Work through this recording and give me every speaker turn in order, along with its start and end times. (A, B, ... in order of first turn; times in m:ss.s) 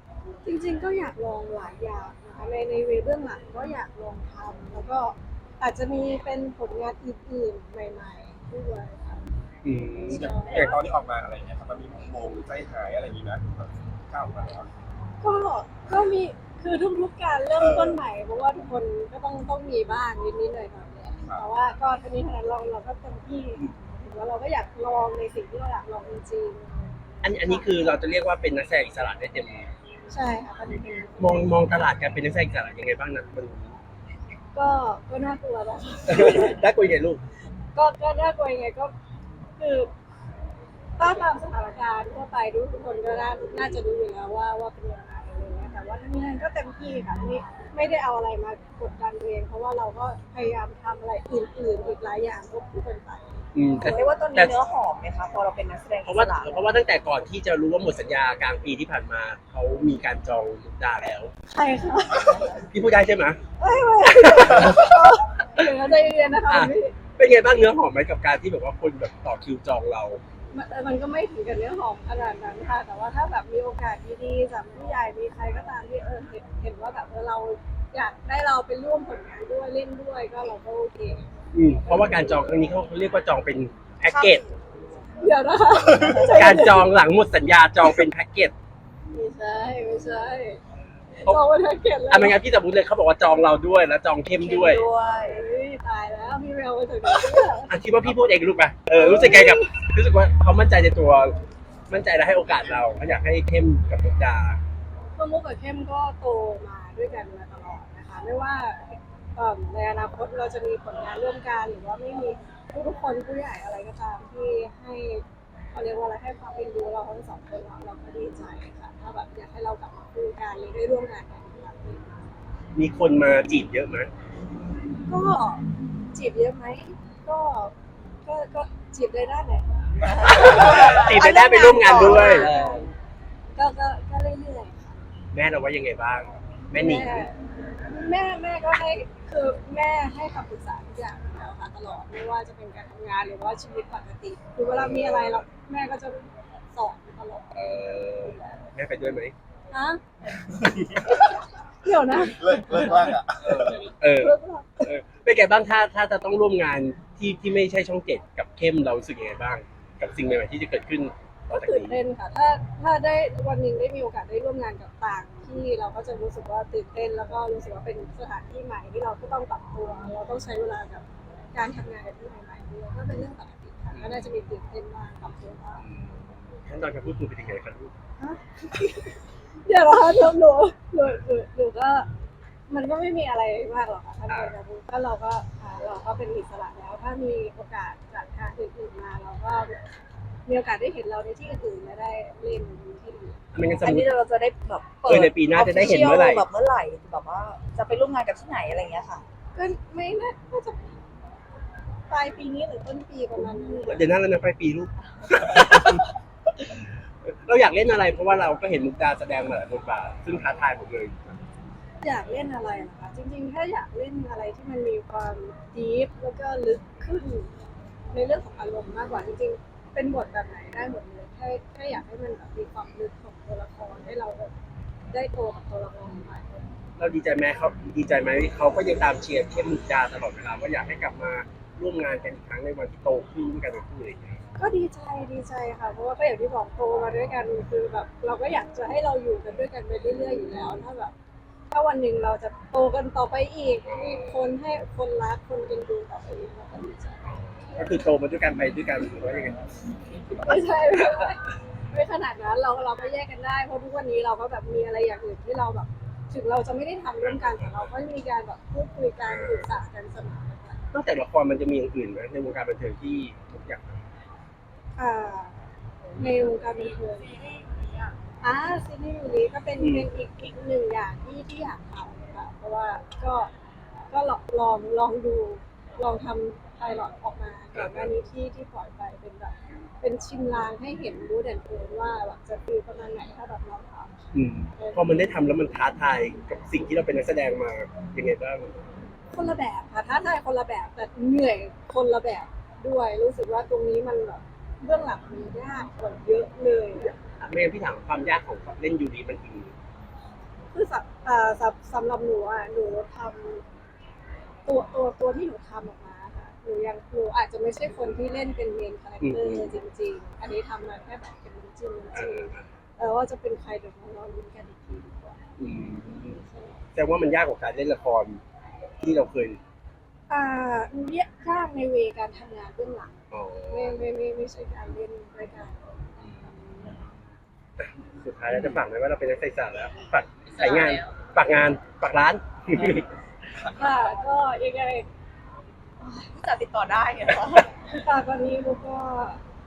0:00.4-0:09.2 A
0:09.6-0:10.8 B
0:10.1-0:10.8 A
0:10.1-0:14.7 C
0:15.2-0:27.7 A
0:17.6-0:18.0 C
0:27.2-0:29.7 B
0:30.1-0:31.6 A
0:31.2-0:33.8 B
0:34.5-0:36.6 A
0:36.1-0:37.2 B
0:37.8-0:38.9 A
0:39.6-0:39.9 A
0:41.0-0:53.4 A
0:53.6-0:54.6 B
0:53.8-0:56.6 D
0:56.0-1:01.3 B
1:01.5-1:02.5 A
1:02.2-1:03.4 B
1:03.6-1:07.0 A
1:04.1-1:05.7 B
1:06.5-1:10.2 B
1:10.5-1:21.3 A
1:21.5-1:24.4 B
1:21.9-1:22.3 A
1:24.1-1:24.4 D
1:25.2-1:26.8 A
1:25.9-1:26.6 D
1:26.3-1:28.5 B
1:29.1-1:30.6 A
1:31.2-1:32.4 A
1:32.1-1:34.8 B
1:34.4-1:35.4 D
1:35.2-1:38.2 A
1:37.7-1:41.4 B
1:38.9-1:39.7 A
1:41.9-1:44.6 B
1:45.1-2:02.2 A
2:02.7-2:04.1 B
2:05.1-2:07.7 A
2:08.2-2:12.9 A
2:10.2-2:12.7 D
2:10.3-2:12.7 B
2:13.6-2:15.0 A
2:15.3-2:17.3 B
2:16.8-2:28.6 A
2:24.7-2:25.4 B
2:27.6-2:29.3 B
2:29.7-2:30.0 A
2:30.9-2:33.2 A
2:32.2-2:33.8 C
2:33.4-2:42.0 B
2:34.2-2:34.9 A
2:41.5-2:55.8 A
2:53.9-2:54.5 B
2:55.8-2:57.9 B
2:58.2-3:02.1 A
3:02.7-3:09.8 A
3:04.3-3:04.6 B
3:10.5-3:13.4 A
3:13.5-3:14.1 B
3:13.8-3:19.2 D
3:15.0-3:16.5 B
3:19.6-3:21.0 A
3:22.1-3:24.1 A
3:23.9-3:26.1 B
3:25.5-3:26.0 D
3:26.6-3:31.4 B
3:32.0-3:37.5 A
3:38.1-3:44.5 A
3:45.1-3:46.6 A
3:47.0-3:54.4 B
3:54.6-4:01.1 A
4:01.7-4:07.8 A
4:03.8-4:04.6 B
4:07.8-4:11.3 B
4:10.4-4:11.4 A
4:11.9-4:20.8 A
4:17.2-4:17.9 B
4:19.2-4:19.7 B
4:20.9-4:24.0 B
4:25.0-4:25.6 A
4:26.2-4:33.5 A
4:29.8-4:30.1 B
4:34.1-4:44.1 A
4:37.7-4:38.1 B
4:44.3-4:48.7 B
4:44.8-4:45.2 A
4:49.3-4:57.2 A
4:57.4-4:59.7 B
5:00.7-5:03.6 A
5:04.7-5:15.4 A
5:09.2-5:09.7 B
5:12.1-5:12.6 B
5:15.6-5:16.4 B
5:16.1-5:16.8 A
5:16.9-5:18.4 B
5:19.0-5:19.6 B
5:20.3-5:23.1 A
5:23.3-5:24.0 B
5:23.7-5:27.0 A
5:28.2-5:33.1 B
5:30.6-5:31.0 D
5:33.6-5:35.1 A
5:36.3-5:37.7 D
5:37.8-5:39.4 A